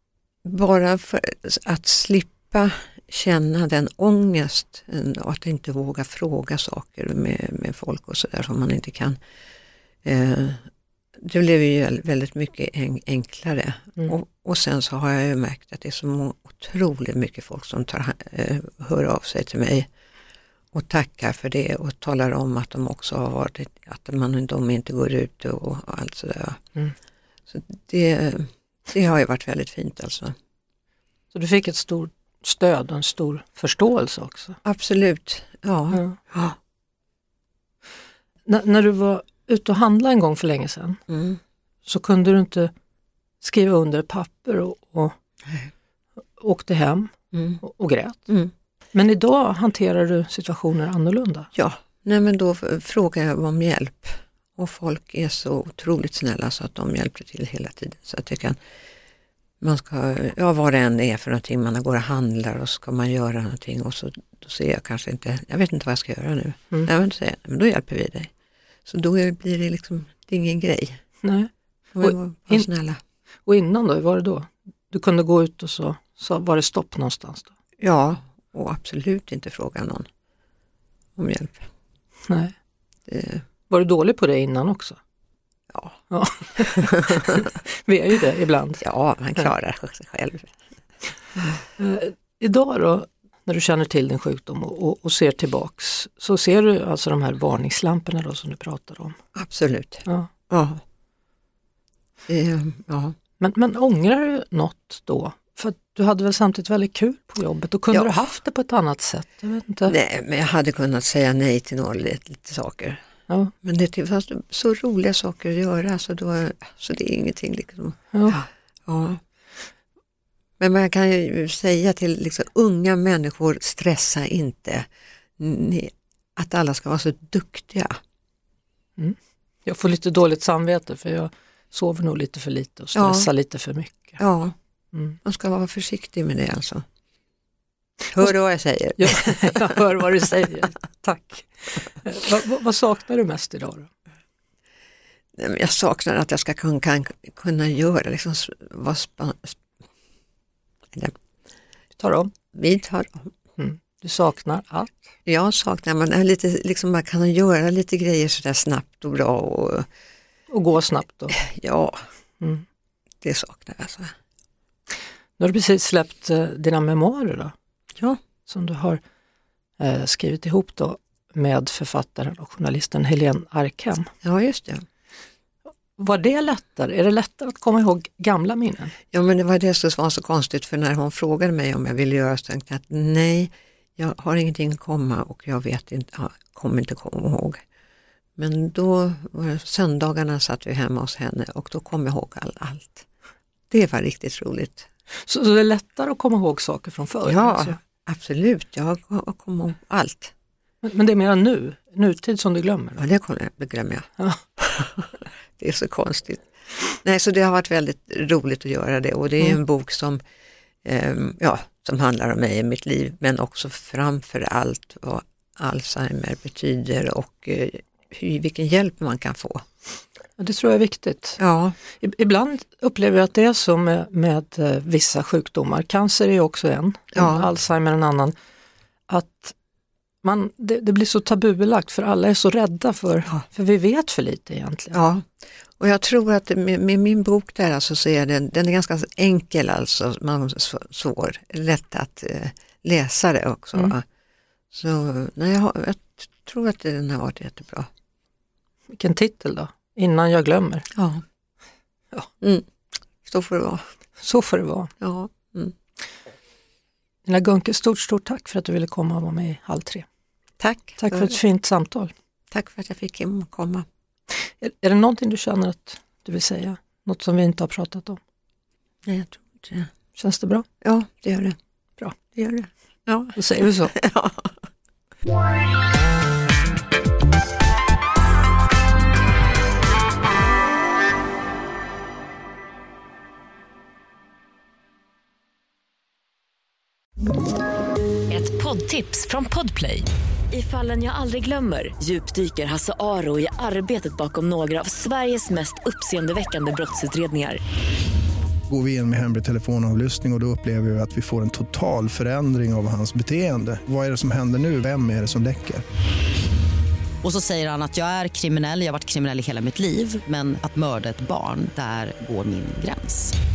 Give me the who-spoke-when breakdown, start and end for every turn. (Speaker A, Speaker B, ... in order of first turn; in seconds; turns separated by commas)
Speaker A: 0.4-9.2, Speaker A: 10.0-19.9, Speaker A: 20.7-26.6, Speaker A: 27.5-30.3, Speaker B: 31.3-34.6, Speaker A: 34.6-36.6, Speaker B: 38.5-41.0, Speaker A: 41.1-41.4, Speaker B: 41.9-42.7, Speaker B: 43.4-45.1, Speaker B: 46.4-48.3, Speaker A: 47.3-47.6, Speaker B: 48.9-51.5, Speaker A: 51.5-58.6, Speaker A: 59.6-68.3, Speaker A: 68.8-71.0, Speaker B: 71.2-72.7, Speaker A: 71.9-73.0, Speaker B: 73.5-77.5, Speaker A: 77.8-80.1, Speaker A: 81.2-81.7, Speaker B: 82.3-82.5, Speaker A: 83.1-83.4, Speaker B: 83.7-85.0, Speaker A: 85.7-86.0, Speaker B: 86.1-88.8, Speaker A: 86.6-87.3, Speaker A: 88.8-90.5, Speaker B: 91.8-99.2, Speaker A: 99.3-100.8, Speaker A: 102.3-103.1, Speaker B: 103.4-109.9, Speaker A: 107.9-108.2, Speaker A: 109.9-113.0, Speaker A: 113.6-119.2, Speaker B: 118.1-118.4, Speaker A: 120.6-128.0, Speaker B: 129.0-134.2, Speaker A: 132.9-133.3, Speaker A: 134.2-134.5, Speaker A: 135.2-136.8, Speaker A: 138.1-139.8, Speaker B: 139.0-143.9, Speaker A: 145.3-149.6, Speaker B: 152.0-152.3, Speaker A: 152.5-153.3, Speaker B: 153.6-155.1, Speaker A: 155.2-159.9, Speaker B: 160.5-161.3, Speaker A: 161.3-162.1, Speaker A: 163.2-164.1, Speaker B: 165.4-167.5, Speaker B: 168.5-169.0, Speaker B: 169.8-174.1, Speaker A: 174.2-174.8, Speaker B: 176.0-178.9, Speaker A: 179.1-187.6, Speaker A: 188.4-193.1, Speaker A: 193.7-194.9, Speaker B: 195.1-197.8, Speaker A: 197.2-200.3, Speaker B: 200.8-203.0, Speaker A: 203.0-210.2, Speaker A: 210.8-219.6, Speaker B: 220.4-221.4, Speaker A: 221.4-221.8, Speaker B: 221.9-228.3, Speaker A: 227.1-227.5, Speaker B: 229.1-229.5, Speaker B: 230.2-235.0, Speaker A: 234.9-244.0, Speaker A: 244.7-247.9, Speaker B: 248.9-250.9, Speaker A: 250.9-251.2, Speaker A: 252.4-252.7, Speaker A: 253.2-253.8, Speaker B: 254.2-254.9, Speaker A: 255.0-255.7, Speaker B: 257.2-260.0, Speaker A: 260.6-261.4, Speaker B: 261.0-262.1, Speaker A: 262.5-263.9, Speaker B: 264.6-268.2, Speaker A: 269.0-269.9, Speaker B: 270.1-270.6, Speaker A: 270.8-271.6, Speaker A: 272.3-274.5, Speaker B: 273.4-273.9, Speaker C: 288.3-297.6, Speaker D: 298.7-305.8, Speaker E: 307.2-313.3